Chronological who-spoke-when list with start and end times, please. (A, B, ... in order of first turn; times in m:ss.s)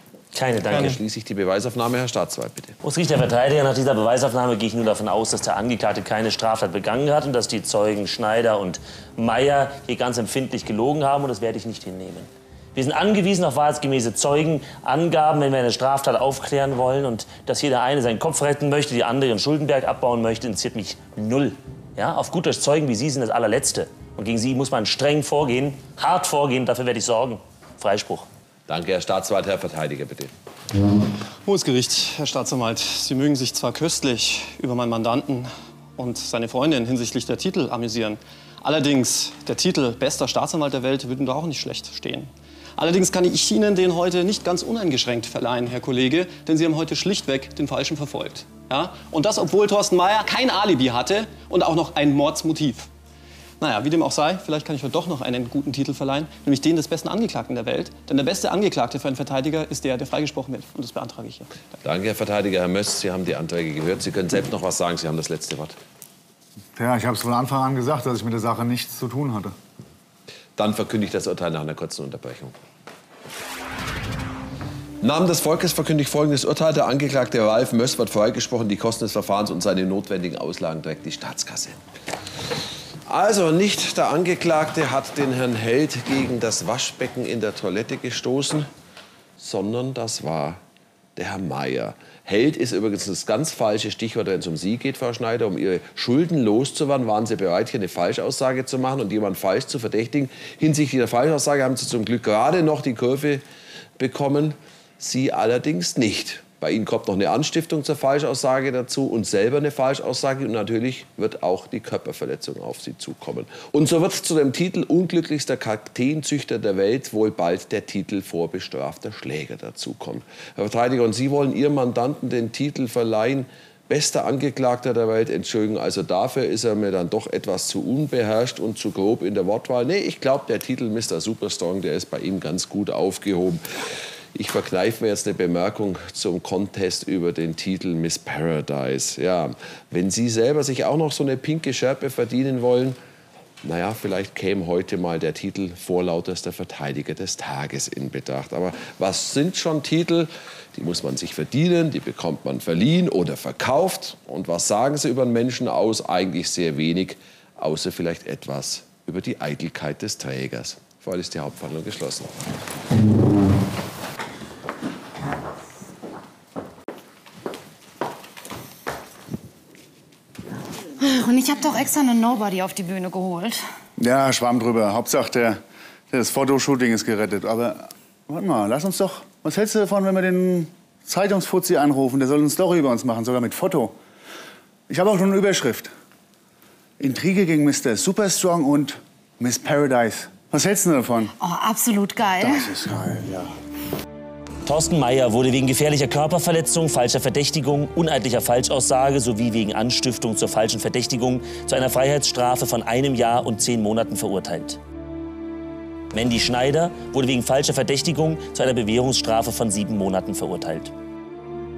0:00.3-0:01.0 A
0:00.7-0:01.0 B
0:00.7-0:02.8 C
0:02.8-0:28.3 A
0:28.7-0:30.3 C
0:31.4-0:52.9 B
0:53.6-1:01.6 B
1:01.8-1:05.8 C
1:06.8-1:09.5 D
1:10.6-1:12.6 C
1:15.0-1:21.8 C
1:23.1-1:28.7 C
1:29.4-1:30.6 C
1:31.2-1:43.4 C
1:44.0-2:23.0 C
2:23.6-2:42.4 C
2:51.0-2:53.6 E
2:54.0-2:55.6 D
2:56.1-3:03.9 D
3:04.9-3:05.9 D
3:07.0-3:11.3 D
3:11.4-3:12.7 E
3:12.4-3:13.5 D
3:14.6-3:24.8 A
3:26.1-3:30.9 A